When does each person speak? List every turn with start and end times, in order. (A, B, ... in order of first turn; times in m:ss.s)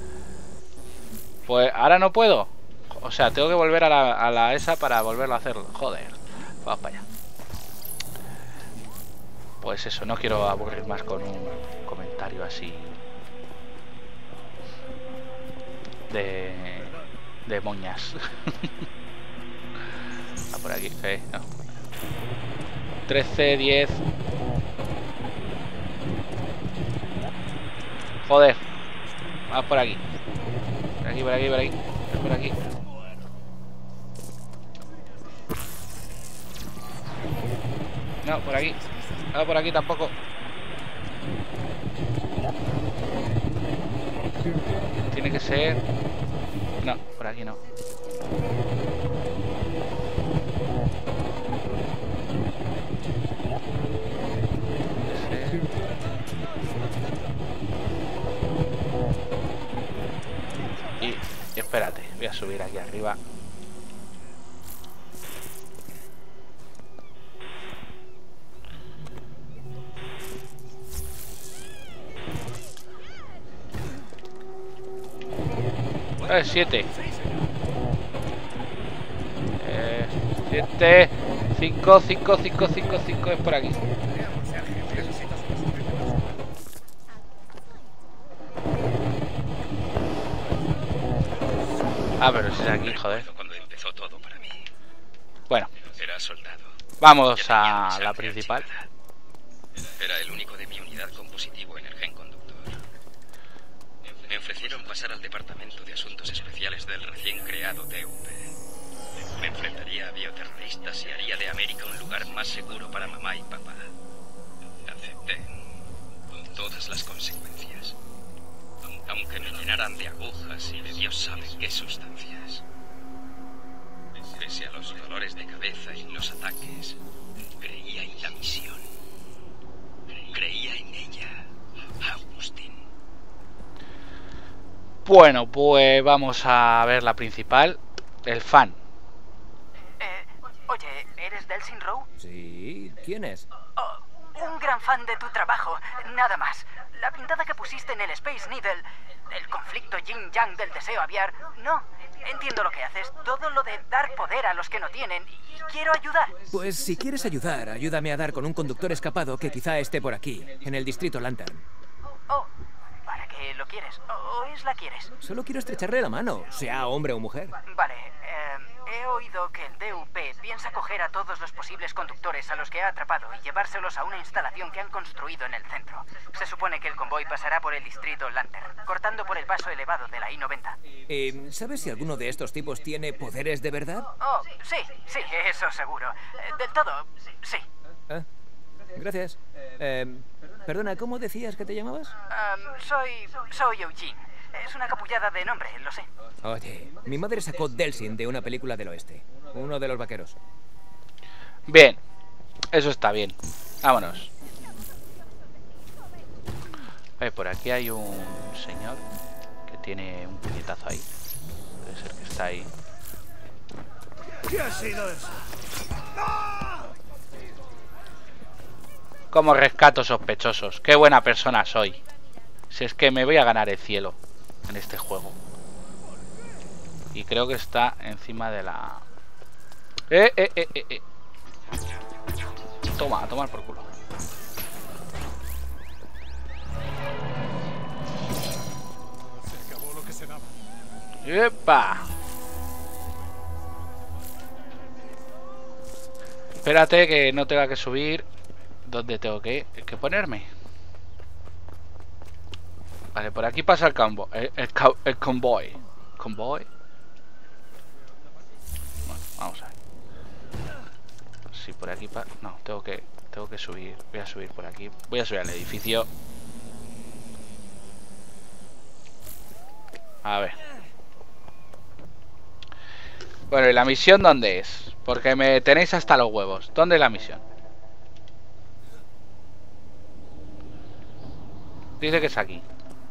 0:01.5-0:07.1 A
0:09.6-0:13.0 A
0:16.1-0:18.7 A
0:20.5-0:21.5 A
0:23.1-0:24.0 A
0:28.3-0:28.6 A
0:29.5-0:30.0 A
0:31.0-0:32.6 A
0:38.2-0:40.2 A
0:45.1-0:45.8 A
0:46.8-0:47.6 A
0:55.0-0:55.7 A
1:01.0-1:03.2 A
1:16.2-1:16.9 A
1:19.6-1:23.8 A
1:32.2-1:33.3 A
1:32.6-1:34.7 B
1:35.8-1:36.7 B
1:37.0-1:38.7 A
1:37.4-1:38.9 B
1:40.0-1:42.8 B
1:44.2-1:48.5 B
1:49.3-1:53.9 B
1:54.8-1:55.5 B
1:56.3-1:58.0 B
1:59.0-2:02.6 B
2:04.3-2:07.0 B
2:07.6-2:08.9 B
2:10.3-2:11.4 B
2:12.0-2:12.8 B
2:15.0-2:18.8 A
2:20.0-2:22.1 C
2:22.2-2:23.5 D
2:23.8-2:36.4 C
2:36.5-2:41.6 D
2:43.0-2:45.1 C
2:45.2-2:47.6 D
2:47.6-3:00.8 C
3:01.1-3:04.1 D
3:04.2-3:07.7 C
3:08.9-3:12.1 D
3:12.3-3:16.1 C
3:16.4-3:20.4 D
3:21.7-3:22.0 A
3:22.7-3:24.3 A
3:27.2-3:29.0 A
3:29.7-3:31.1 A
3:31.8-3:32.7 A
3:39.3-3:42.0 A
3:42.7-3:45.4 A
3:47.1-3:49.0 A
3:50.1-3:51.0 A
3:53.0-3:53.9 A
4:01.2-4:02.1 A
4:06.6-4:08.3 A
4:08.8-4:10.5 A
4:13.2-4:16.7 A
4:19.1-4:19.7 A
4:21.5-4:26.1 A
4:30.2-4:30.6 A
4:33.5-4:37.4 A
4:42.0-4:42.7 A